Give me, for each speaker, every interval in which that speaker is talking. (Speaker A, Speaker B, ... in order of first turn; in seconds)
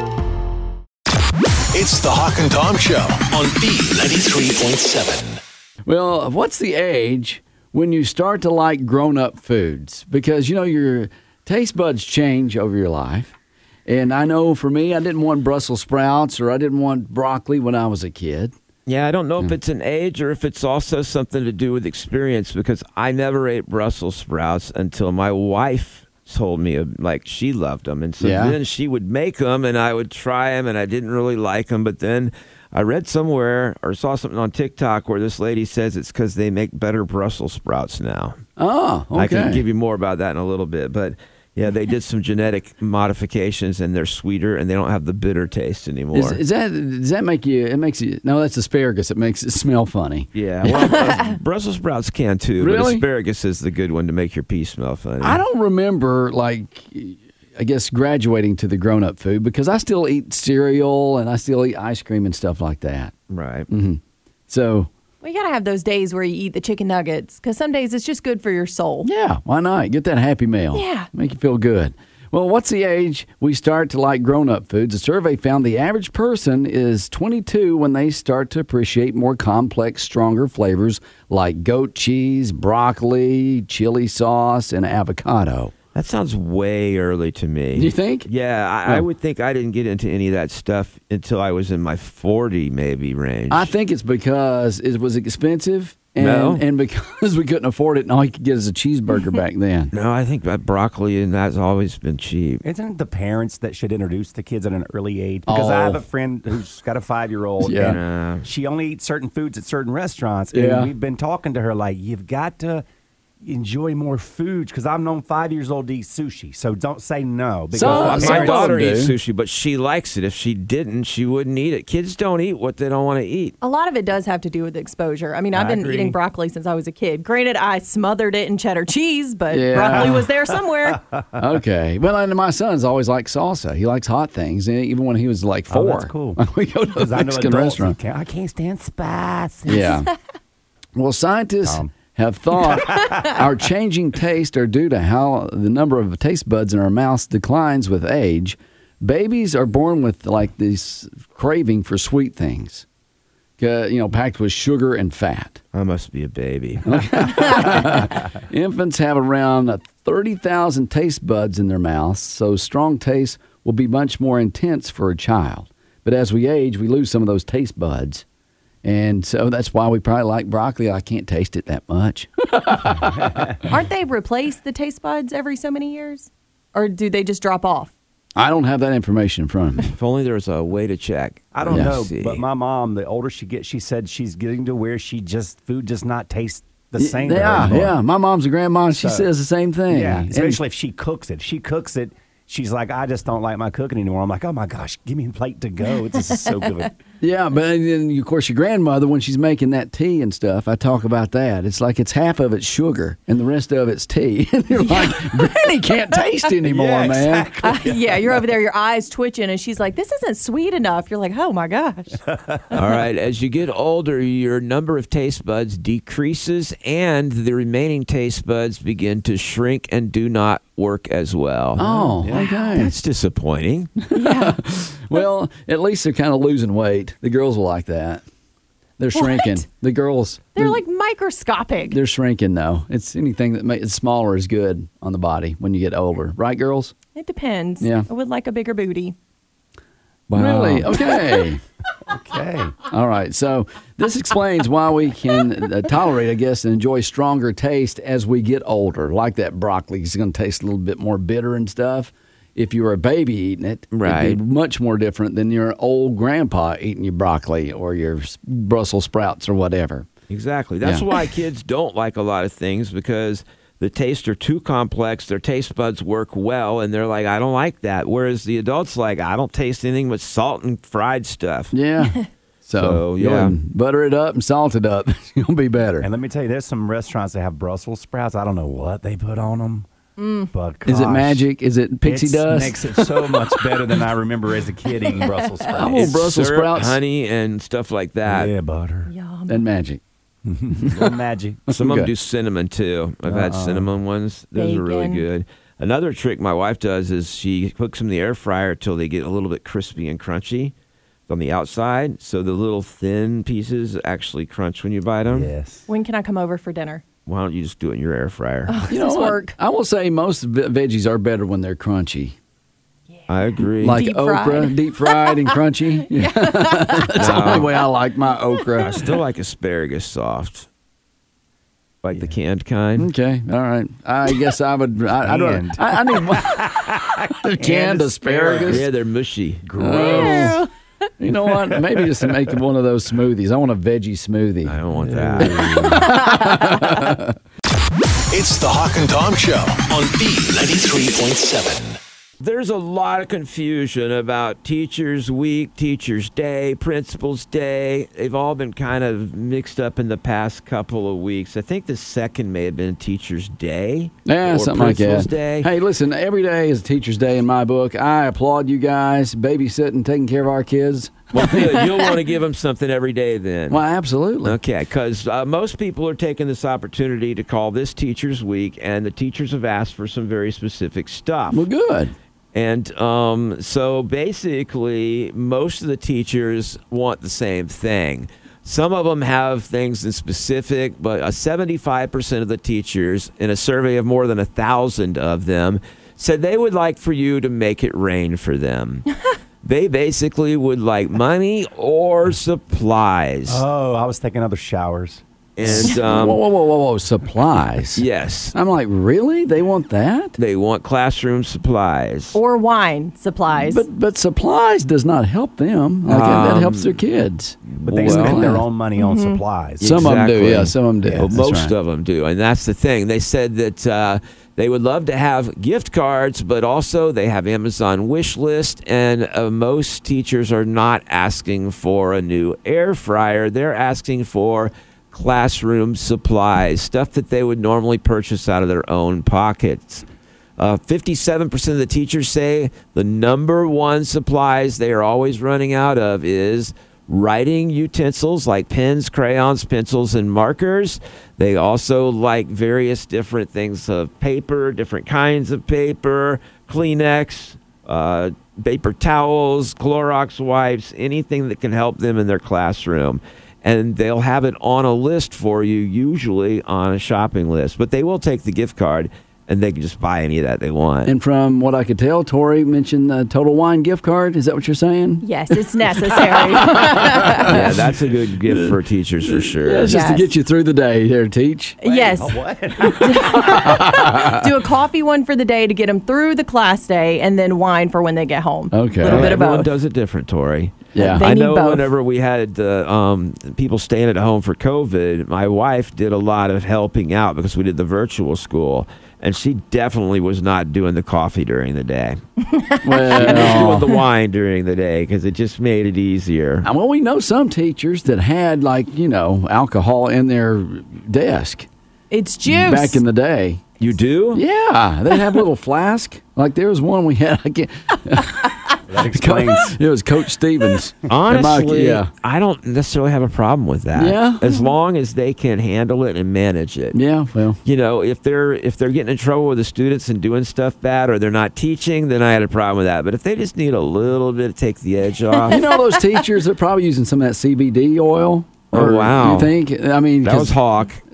Speaker A: 1.7-5.4, 338.3-342.0
Speaker B: 5.8-13.3, 13.9-18.5, 28.2-28.6, 38.6-39.6, 46.1-50.3, 52.6-53.0, 55.2-63.1, 63.7-64.9, 69.0-85.7, 87.7-88.3, 93.5-99.9, 105.5-106.0, 107.6-108.0, 110.5-110.9, 117.7-119.1, 129.5-130.2, 131.4-138.0, 139.7-140.1, 140.9-152.8, 153.6-155.6, 156.8-168.2, 168.8-173.5, 178.3-179.9, 181.7-181.9, 186.9-190.6, 197.2-207.7, 221.8-222.9, 224.1-228.2, 229.0-230.8, 231.9-236.9, 237.8-238.1, 240.3-241.6, 242.9-260.1, 271.7-276.1, 280.9-283.6, 285.7-287.0, 289.5-290.0, 290.7-291.1, 291.7-292.1, 308.9-312.4, 313.8-319.0, 323.0-328.8, 329.8-330.6, 331.2-334.8, 335.4-337.3, 354.2-361.8, 363.7-364.6, 371.5-372.1, 395.6-400.4, 403.6-408.6, 409.8-411.7, 461.0-467.7, 469.2-471.8, 472.9-474.5, 478.7-479.4, 480.9-481.3, 492.8-493.9, 496.6-501.7, 502.4-503.6, 504.3-512.1, 514.0-514.4, 516.9-517.6, 525.5-530.6
Speaker C: 18.9-38.4, 39.1-46.4, 50.3-55.4, 63.3-63.7, 85.9-93.7, 96.2-96.6, 99.9-102.6, 107.8-108.5, 117.8-123.5, 155.7-158.0, 179.9-182.4, 212.7-221.8, 222.5-223.9, 253.9-254.4, 260.3-271.7, 272.7-273.6, 285.9-288.5, 291.7-300.7, 301.3-305.5, 307.2-308.9, 313.3-314.0, 317.2-317.8, 318.8-320.7, 322.0-323.1, 328.6-329.6, 334.6-335.6, 342.4-355.7, 361.3-363.8, 364.4-371.6, 372.5-389.0, 389.6-393.6, 395.6-396.4, 397.9-398.5, 400.4-402.4, 406.1-407.0, 407.7-408.4, 409.8-430.0, 430.6-461.1, 467.4-469.9, 479.0-492.2, 493.2-496.7, 503.8-504.4, 511.1-517.0, 517.6-525.6, 528.7-529.5, 530.2-531.0
Speaker D: 65.2-69.1, 70.7-71.1, 123.6-131.0, 173.6-177.9, 204.9-205.3, 207.6-212.2, 224.1-224.6, 229.1-229.6, 230.6-232.0, 237.1-239.2, 240.4-241.5, 280.2-280.5, 289.1-289.6, 294.6-295.2, 305.9-307.0, 308.7-309.6, 313.9-315.5, 316.1-317.7, 329.9-330.7, 336.1-336.9, 402.3-403.8, 409.0-409.4, 465.2-467.5, 469.9-470.3, 471.8-479.7, 481.0-481.9, 492.6-493.1, 502.1-503.0, 525.5-526.2
Speaker E: 102.6-112.8, 113.4-118.8, 125.5-126.2, 129.9-130.2, 135.7-136.4, 136.9-139.9, 141.6-141.9, 142.6-143.2, 173.1-173.6, 181.5-188.0, 188.9-189.3, 189.9-196.9, 206.6-208.4, 212.3-212.7, 221.8-222.5, 242.1-242.8, 276.0-279.9, 280.5-281.5, 282.0-286.1, 288.2-289.1, 290.4-291.7, 293.2-293.9, 305.3-305.8, 325.2-328.9, 329.6-330.6, 331.7-332.3, 334.9-336.1, 393.5-395.2, 407.8-410.0, 471.8-473.4, 508.9-509.8